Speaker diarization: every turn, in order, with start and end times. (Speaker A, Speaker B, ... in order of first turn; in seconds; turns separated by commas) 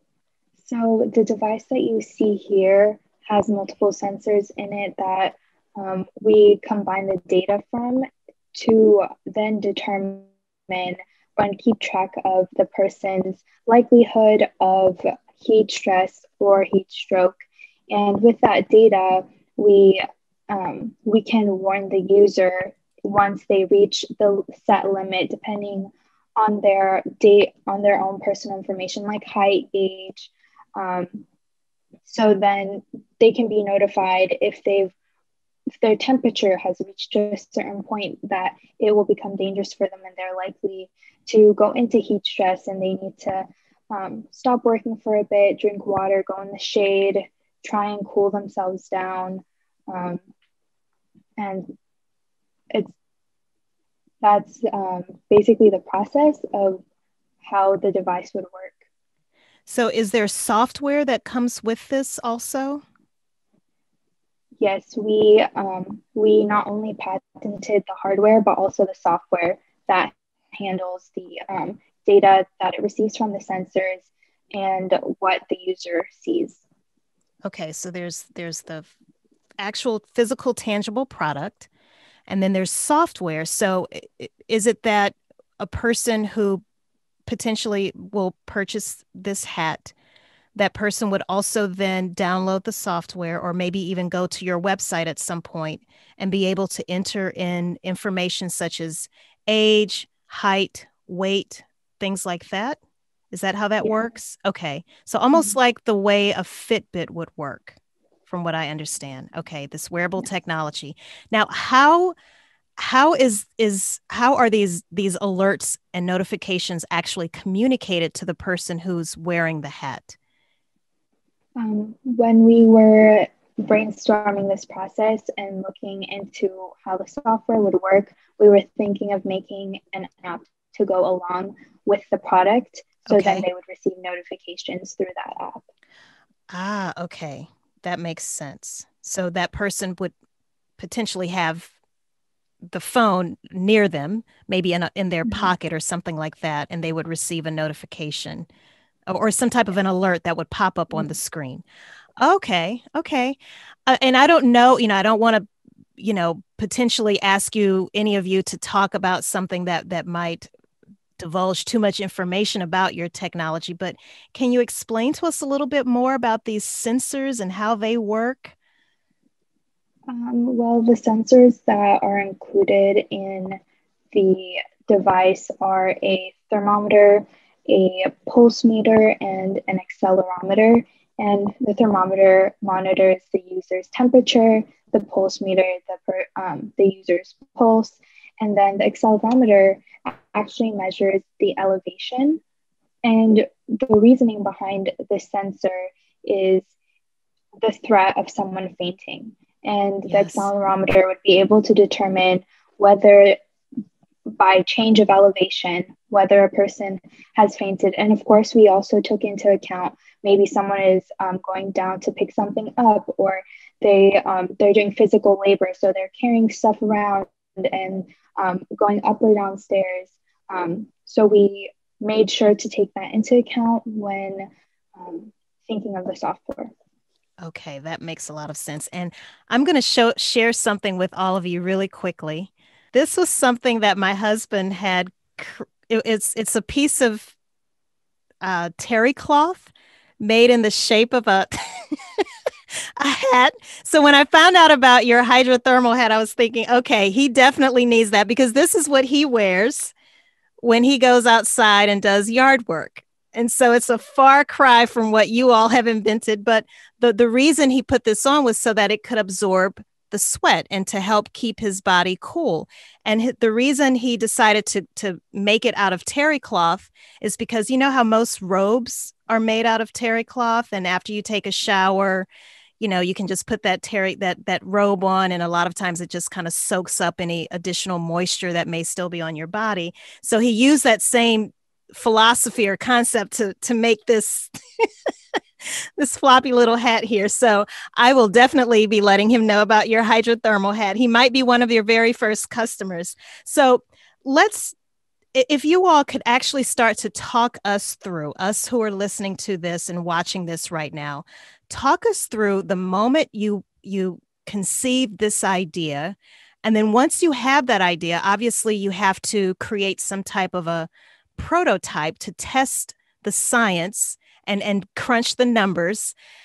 Speaker A: 0.6-17.4, Speaker A: 17.9-31.2, Speaker A: 32.0-34.9, Speaker A: 35.7-50.2, Speaker A: 51.4-51.8, Speaker A: 54.2-56.8, Speaker A: 57.4-58.8, Speaker B: 59.7-62.8, Speaker A: 64.6-76.6, Speaker B: 77.4-78.9, Speaker B: 79.6-81.7, Speaker B: 82.3-86.6, Speaker B: 87.2-89.9, Speaker B: 90.5-102.8, Speaker B: 103.3-112.1, Speaker B: 112.8-120.2, Speaker A: 121.6-135.7, Speaker B: 133.1-133.4, Speaker B: 136.5-140.1, Speaker B: 140.8-141.7, Speaker B: 142.7-148.5, Speaker A: 145.2-145.5, Speaker B: 149.1-151.6, Speaker B: 152.2-160.5, Speaker B: 161.2-168.5, Speaker A: 170.1-173.6, Speaker A: 174.1-192.4, Speaker A: 193.0-196.7, Speaker A: 197.6-203.4, Speaker B: 200.1-200.5, Speaker A: 204.3-226.7, Speaker B: 227.4-237.3, Speaker B: 238.4-239.7, Speaker B: 240.2-242.2, Speaker B: 243.0-249.9, Speaker B: 250.6-272.3, Speaker B: 272.8-284.9, Speaker B: 286.0-294.7, Speaker B: 295.3-316.1